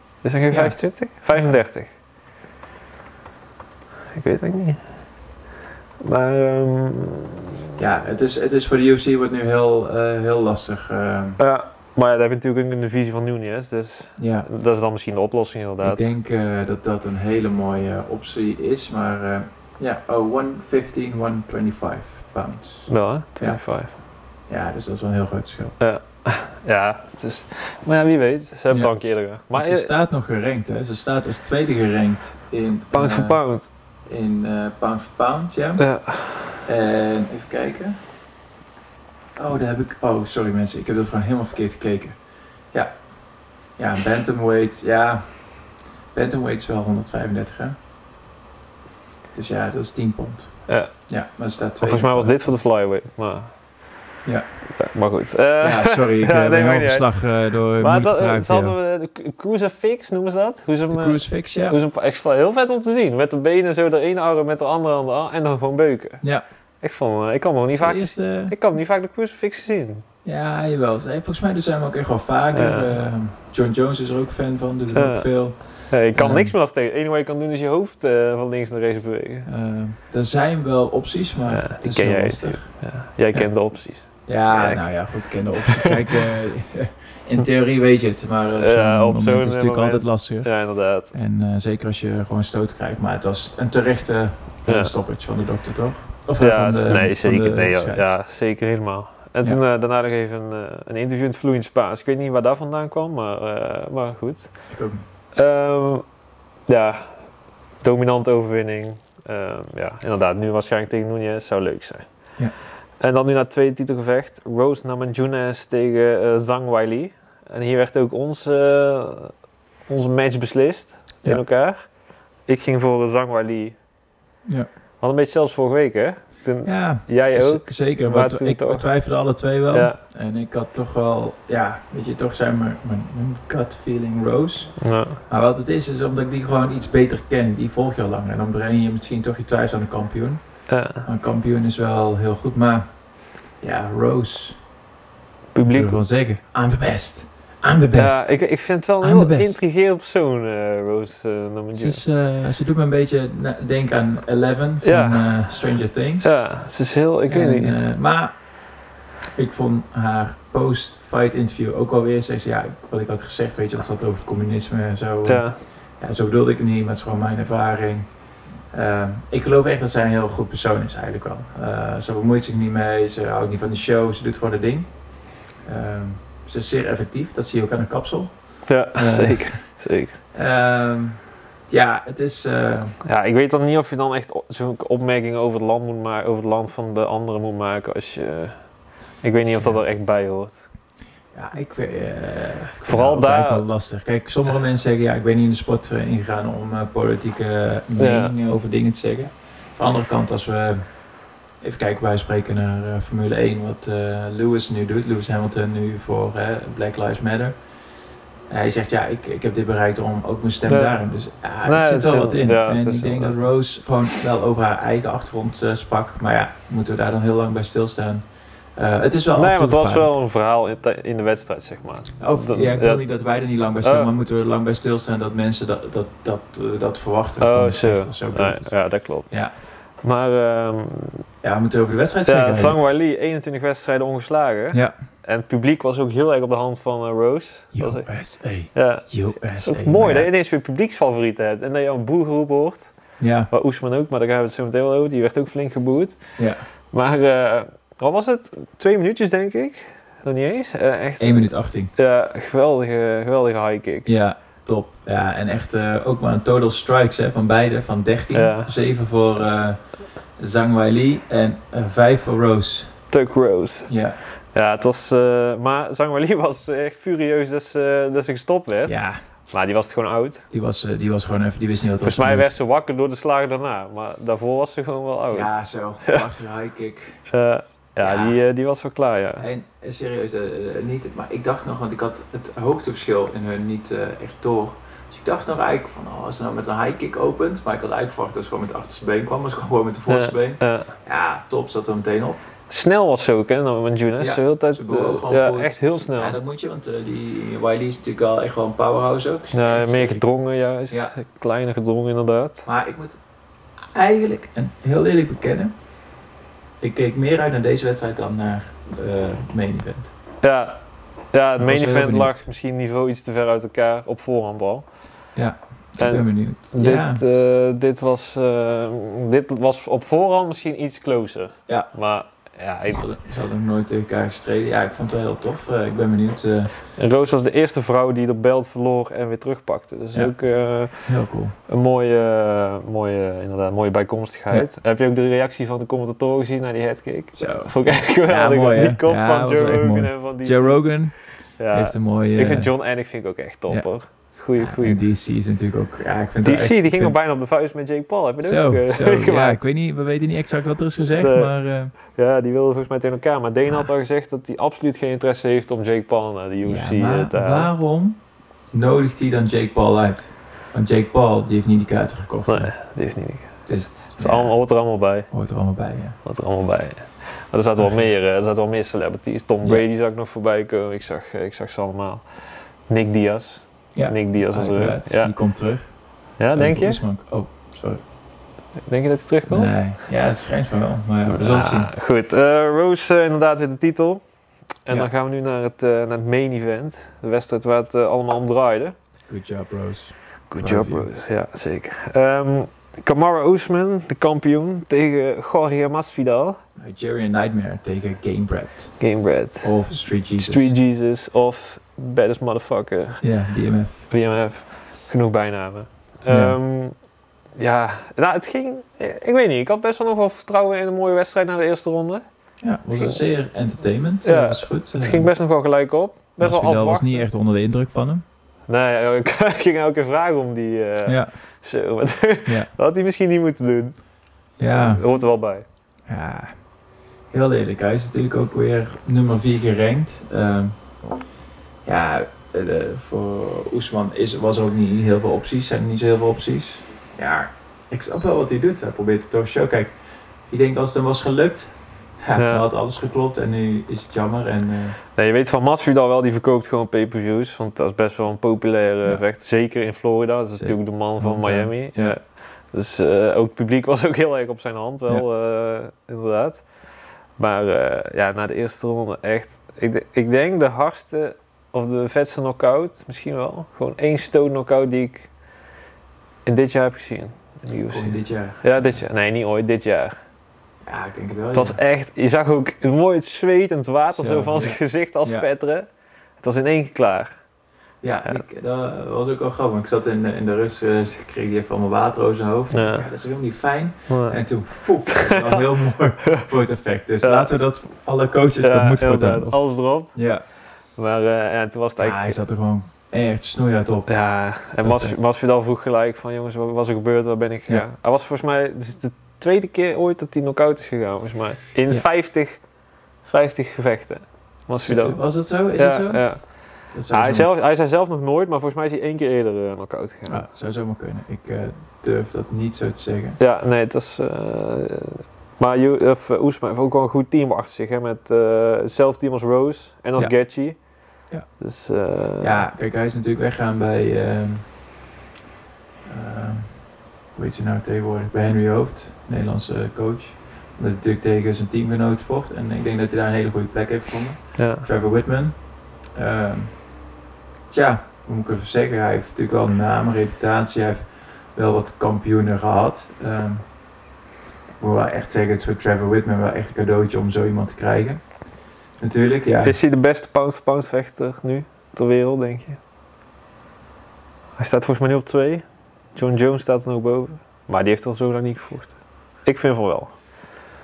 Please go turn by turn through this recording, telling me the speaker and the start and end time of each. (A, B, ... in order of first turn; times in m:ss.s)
0:00.2-0:01.9 A
0:00.5-0:01.6 B
0:04.1-0:04.8 A
0:06.0-0:07.7 A
0:07.8-0:11.4 B
0:11.4-0:16.1 A
0:14.2-0:14.5 B
0:15.8-0:23.6 B
0:22.9-0:23.9 A
0:24.5-0:25.8 B
0:25.8-0:29.9 A
0:29.5-0:33.4 B
0:32.9-0:33.7 A
0:34.0-0:35.8 B
0:35.8-0:36.6 A
0:36.6-0:38.0 B
0:39.4-0:42.2 B
0:43.8-0:45.3 B
0:46.1-0:47.8 B
0:49.3-0:52.4 B
0:50.7-0:50.9 A
0:51.8-0:53.5 A
0:54.7-0:57.1 A
0:55.6-0:58.8 B
0:57.8-1:06.2 A
1:00.9-1:01.8 B
1:06.8-1:10.0 A
1:07.7-1:08.6 B
1:10.2-1:16.5 B
1:12.5-1:12.9 A
1:14.9-1:19.5 A
1:19.4-1:22.7 B
1:21.5-1:24.9 A
1:24.1-1:30.6 B
1:25.6-1:26.2 A
1:28.6-1:31.1 A
1:31.1-1:38.1 B
1:34.7-1:35.0 A
1:36.4-1:44.5 A
1:44.7-1:45.0 B
1:45.3-1:46.0 A
1:46.7-1:47.0 A
1:47.8-1:52.0 A
1:53.0-1:59.3 A
1:59.9-2:01.9 A
2:02.5-2:03.7 A
2:05.0-2:08.9 A
2:06.6-2:22.9 B
2:09.7-2:10.0 A
2:14.8-2:15.2 A
2:20.7-2:21.0 A
2:23.6-2:24.6 B
2:25.5-2:26.0 A
2:25.6-2:28.4 B
2:27.9-2:32.0 A
2:29.0-2:29.6 B
2:31.7-2:36.4 B
2:34.8-2:35.5 A
2:36.2-2:37.8 A
2:37.3-2:38.5 B
2:39.3-2:48.1 B
2:45.2-2:45.6 A
2:48.7-2:55.0 B
2:55.6-2:59.7 B
2:58.7-3:00.2 A
3:00.3-3:02.9 B
3:03.0-3:08.5 A
3:09.2-3:10.6 A
3:09.5-3:09.8 B
3:11.3-3:21.0 B
3:12.8-3:13.6 A
3:18.0-3:18.3 A
3:21.6-3:27.5 B
3:28.5-3:38.2 B
3:30.7-3:31.0 A
3:31.6-3:33.5 A
3:38.8-3:40.1 B
3:39.3-3:43.0 A
3:42.2-3:49.5 B
3:43.8-3:44.1 A
3:47.4-3:49.3 A
3:50.0-3:51.3 A
3:51.4-3:52.8 B
3:52.2-3:58.1 A
3:57.7-4:00.3 B
3:58.7-4:02.9 A
4:03.2-4:03.5 B
4:03.5-4:06.4 A
4:06.4-4:06.6 B
4:06.9-4:14.1 A
4:11.2-4:11.9 B
4:14.0-4:19.8 B
4:18.3-4:18.7 A
4:20.4-4:23.0 B
4:23.1-4:23.9 A
4:23.9-4:24.2 B
4:24.5-4:30.4 A
4:28.8-4:29.2 B
4:30.5-4:32.5 B
4:32.0-4:35.5 A
4:35.3-4:37.2 B
4:37.3-4:39.4 A
4:38.0-4:38.4 B
4:39.4-4:52.4 B
4:50.1-4:50.9 A
4:52.7-4:56.4 A
4:54.2-5:00.2 B
4:59.5-5:02.6 A
5:02.6-5:03.2 B
5:03.9-5:05.7 B
5:06.8-5:10.1 B
5:10.4-5:10.8 A
5:11.3-5:14.9 A
5:11.6-5:12.4 B
5:15.3-5:17.2 B
5:16.0-5:23.0 A
5:22.9-5:26.7 B
5:27.0-5:31.2 A
5:31.0-5:31.5 B
5:31.7-5:40.9 A
5:37.3-5:41.2 B
5:41.6-5:45.0 A
5:41.7-5:42.7 B
5:44.6-5:47.1 B
5:46.4-5:49.6 A
5:48.4-5:51.9 B
5:51.2-5:57.7 A
5:56.6-5:58.2 B
5:58.7-6:02.7 B
6:02.5-6:05.3 A
6:03.7-6:04.6 B
6:05.3-6:06.2 B
6:06.2-6:15.3 A
6:07.8-6:08.1 B
6:13.9-6:15.9 B
6:16.4-6:17.0 A
6:16.5-6:18.0 B
6:18.8-6:19.7 A
6:19.5-6:21.9 B
6:21.3-6:24.2 A
6:24.8-6:28.9 A
6:29.3-6:31.1 B
6:30.5-6:36.6 A
6:36.8-6:39.0 B
6:39.0-6:39.7 A
6:39.6-6:40.7 B
6:40.4-6:43.2 A
6:43.2-6:43.9 B
6:44.1-6:47.0 A
6:46.3-6:46.6 B
6:47.6-6:52.2 A
6:52.6-6:55.3 B
6:52.9-6:53.2 A
6:54.2-6:57.2 A
6:56.4-6:58.2 B
6:58.7-7:04.0 A
7:01.0-7:01.3 B
7:04.6-7:05.0 B
7:04.7-7:05.6 A
7:06.1-7:06.6 B
7:07.3-7:10.8 B
7:11.8-7:19.9 B
7:20.5-7:25.0 B
7:22.3-7:22.6 A
7:25.1-7:36.7 A
7:30.6-7:32.2 B
7:37.4-7:45.3 A
7:46.4-7:50.1 A
7:47.9-7:49.0 B
7:50.8-7:51.8 B
7:51.5-7:55.9 A
7:54.1-7:55.4 B
7:56.4-7:57.3 A
7:58.0-8:10.4 B
8:02.7-8:03.1 A
8:04.1-8:05.6 A
8:07.2-8:07.5 A
8:08.6-8:10.2 A
8:11.0-8:12.4 A
8:12.0-8:14.1 B
8:14.1-8:22.6 A
8:14.8-8:15.1 B
8:23.2-8:25.2 A
8:24.8-8:27.5 B
8:25.7-8:30.4 A
8:30.3-8:33.4 B
8:33.4-8:40.8 A
8:41.6-8:42.7 A
8:42.4-8:44.8 B
8:46.0-8:57.0 B
8:54.6-8:54.8 A
8:57.7-9:03.7 B
9:04.8-9:08.2 B
9:09.0-9:09.8 B
9:09.6-9:12.8 A
9:14.6-9:20.1 A